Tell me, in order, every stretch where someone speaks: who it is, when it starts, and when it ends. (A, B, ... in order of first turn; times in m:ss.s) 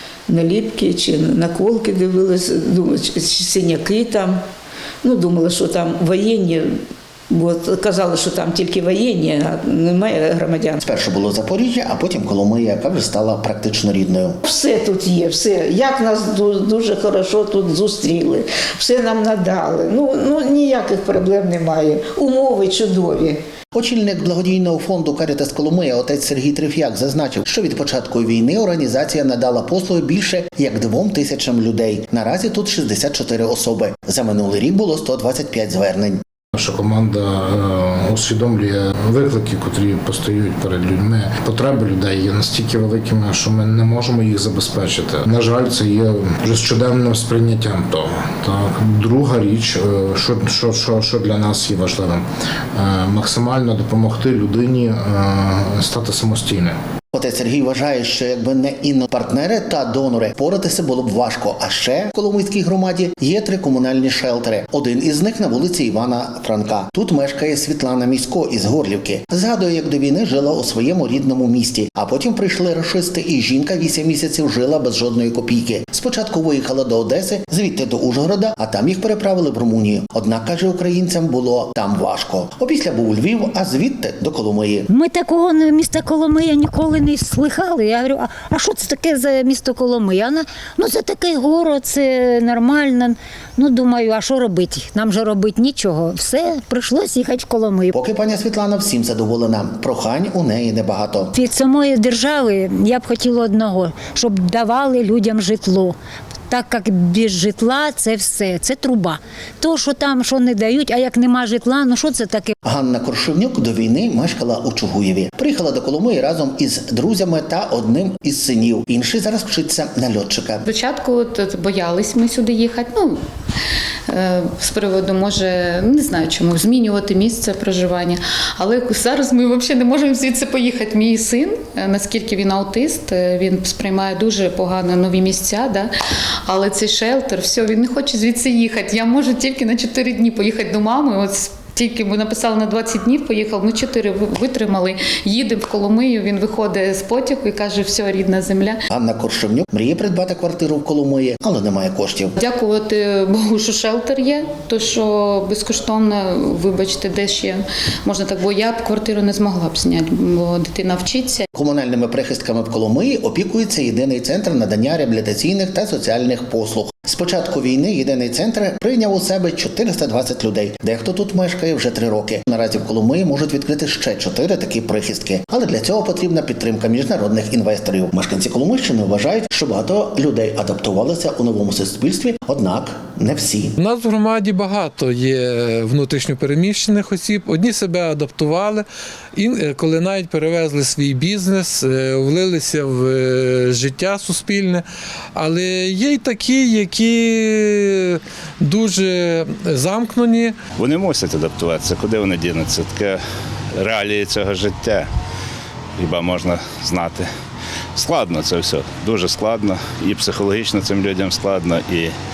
0:00.3-0:04.4 A
0:05.0-0:06.8 A
0:07.3-0:10.8 A
0:10.8-0:14.4 B
0:14.5-0:23.4 A
0:23.7-0:36.2 B
0:36.5-0:56.8 C
0:57.1-1:24.9 B
1:24.9-1:37.9 D
1:37.9-1:41.3 B
1:41.3-1:46.0 D
1:46.5-1:52.5 D
1:52.6-2:00.6 B
2:00.6-2:03.1 E
2:04.1-2:15.9 E
2:16.5-2:28.7 E
2:28.9-2:32.4 B
2:32.4-2:37.6 E
2:38.1-2:41.4 E
2:41.5-3:03.7 B
3:03.8-3:08.8 F
3:09.4-3:14.8 F
3:15.4-3:20.5 F
3:20.8-3:23.2 G
3:23.8-3:25.1 G
3:26.0-3:27.3 G
3:28.0-3:32.1 G